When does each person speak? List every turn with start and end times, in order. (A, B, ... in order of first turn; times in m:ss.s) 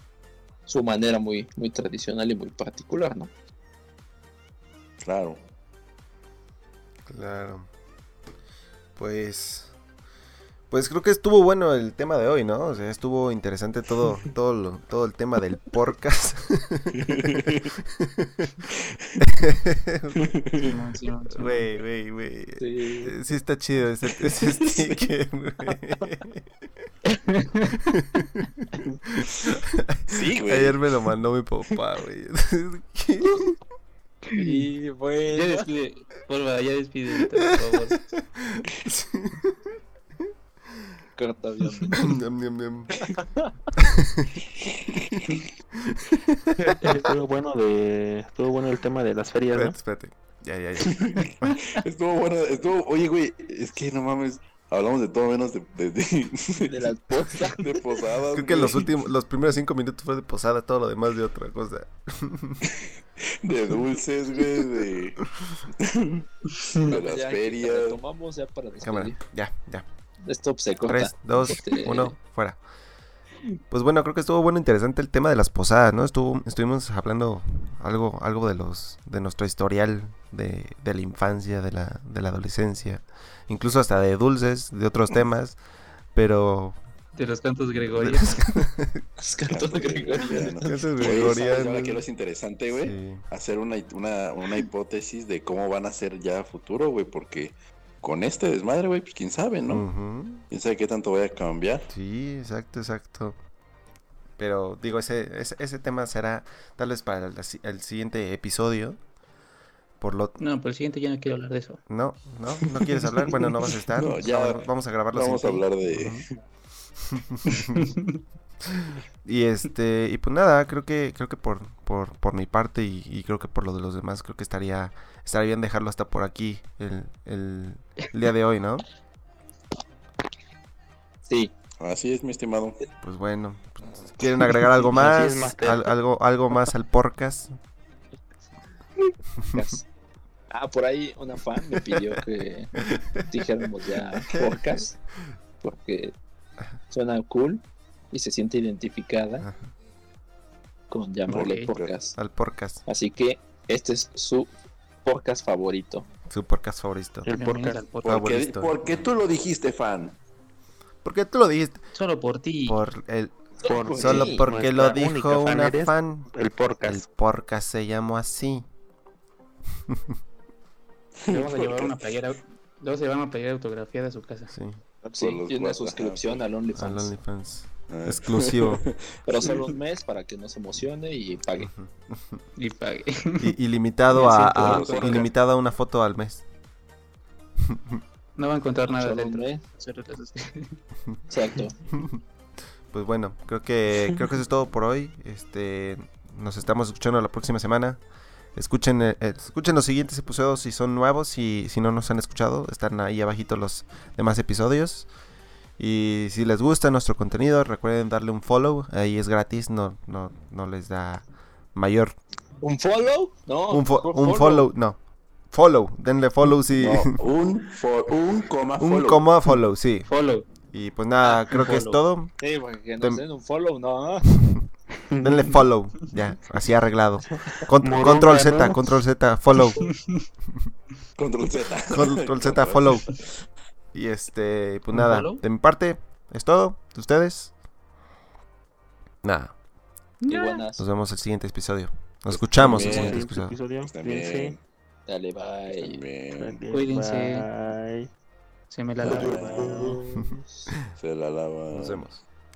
0:00.7-0:03.3 A
0:05.0-0:05.4 B
0:07.0-0:07.7 C
0:09.0-0:09.7 C
0:10.7-0:18.5 C
0:17.0-0:17.7 B
0:19.2-0:20.3 C
0:20.2-0:20.7 B
0:20.6-0:21.7 D
0:21.4-0:26.5 C
0:22.6-0:23.1 A
0:24.6-0:25.0 B
0:27.1-0:27.8 D
0:27.9-0:33.6 C
0:30.1-0:30.8 B
0:34.4-0:35.7 A
0:35.3-0:38.0 D
0:37.7-0:39.6 C
0:41.2-0:42.1 A
0:42.0-0:42.9 C
0:43.0-0:43.5 A
0:43.8-0:44.3 C
0:44.7-0:45.4 B
0:45.8-0:46.5 C
0:46.9-0:49.8 E
0:49.5-0:51.6 C
0:50.8-0:56.8 B
0:56.6-0:57.8 A
0:57.4-0:58.9 B
0:58.3-1:02.6 C
1:03.4-1:08.0 B
1:06.8-1:09.2 A
1:08.8-1:09.8 C
1:10.2-1:12.2 A
1:10.9-1:12.6 C
1:13.7-1:25.6 C
1:26.1-1:26.8 C
1:27.1-1:28.5 D
1:27.9-1:29.0 C
1:29.2-1:31.7 A
1:29.5-1:39.8 B
1:30.6-1:32.0 C
1:32.8-1:33.2 C
1:39.7-1:40.4 C
1:40.5-1:41.9 B
1:41.9-1:43.4 C
1:44.4-1:49.0 C
1:50.0-1:50.4 C
1:50.4-1:51.8 D
1:51.9-1:56.2 C
1:53.9-1:56.4 B
1:57.1-1:57.8 C
1:57.5-1:57.9 D
1:58.9-2:08.8 C
2:11.2-2:11.5 A
2:11.8-2:12.8 B
2:13.0-2:17.5 C
2:14.9-2:15.9 E
2:19.4-2:19.8 C
2:19.5-2:19.8 A
2:20.5-2:25.0 A
2:22.9-2:23.5 C
2:24.1-2:24.9 C
2:25.6-2:26.2 A
2:26.9-2:29.5 A
2:29.4-2:29.7 C
2:30.9-2:32.2 A
2:31.3-2:31.7 D
2:31.3-2:31.9 B
2:32.2-2:32.8 C
2:32.9-2:34.5 A
2:35.0-2:36.1 A
2:36.3-2:37.3 C
2:37.2-2:37.8 E
2:37.3-2:38.2 D
2:38.0-2:40.2 B
2:38.0-2:39.0 C
2:41.0-2:41.8 C
2:41.9-2:42.8 D
2:42.6-2:46.3 C
2:43.6-2:44.4 A
2:43.6-2:47.0 E
2:46.8-2:48.7 C
2:51.2-2:51.9 B
2:51.3-2:54.5 D
2:54.5-2:54.8 C
2:55.0-2:57.1 A
2:55.2-2:56.4 B
2:56.7-2:58.8 C
2:57.9-2:59.7 B
2:59.2-3:01.7 A
3:01.6-3:02.4 C
3:02.6-3:03.5 D
3:03.4-3:06.4 C
3:04.1-3:05.3 D
3:04.1-3:05.3 B
3:07.7-3:08.0 C
3:08.4-3:10.8 D
3:08.9-3:09.6 A
3:11.3-3:11.8 A
3:11.9-3:12.2 C
3:12.9-3:18.0 C
3:18.5-3:25.1 C
3:25.8-3:32.2 C
3:32.6-3:34.7 A
3:33.7-3:35.0 C
3:35.5-3:37.1 C
3:36.8-3:39.3 B
3:38.8-3:40.1 C
3:40.1-3:40.4 D
3:40.7-3:42.3 C
3:41.2-3:42.0 D
3:42.4-3:44.3 A
3:44.4-3:44.6 C
3:45.1-3:45.4 E
3:45.2-3:49.9 C
3:47.8-3:49.0 E
3:49.8-3:50.2 D
3:51.2-3:53.3 B
3:51.9-3:53.1 C
3:53.9-3:57.5 C
3:54.9-3:55.4 D
3:59.2-3:59.6 C
4:00.2-4:00.6 D
4:00.3-4:00.8 A
4:00.8-4:03.6 C
4:02.3-4:03.2 B
4:02.6-4:04.5 E
4:03.8-4:04.6 B
4:05.1-4:06.0 A
4:05.7-4:06.6 B
4:06.3-4:08.1 E
4:06.7-4:07.5 D
4:08.7-4:09.9 D
4:09.0-4:10.0 E
4:09.0-4:09.9 B
4:09.1-4:10.7 A
4:10.2-4:10.7 C
4:11.0-4:12.2 B
4:11.7-4:12.2 C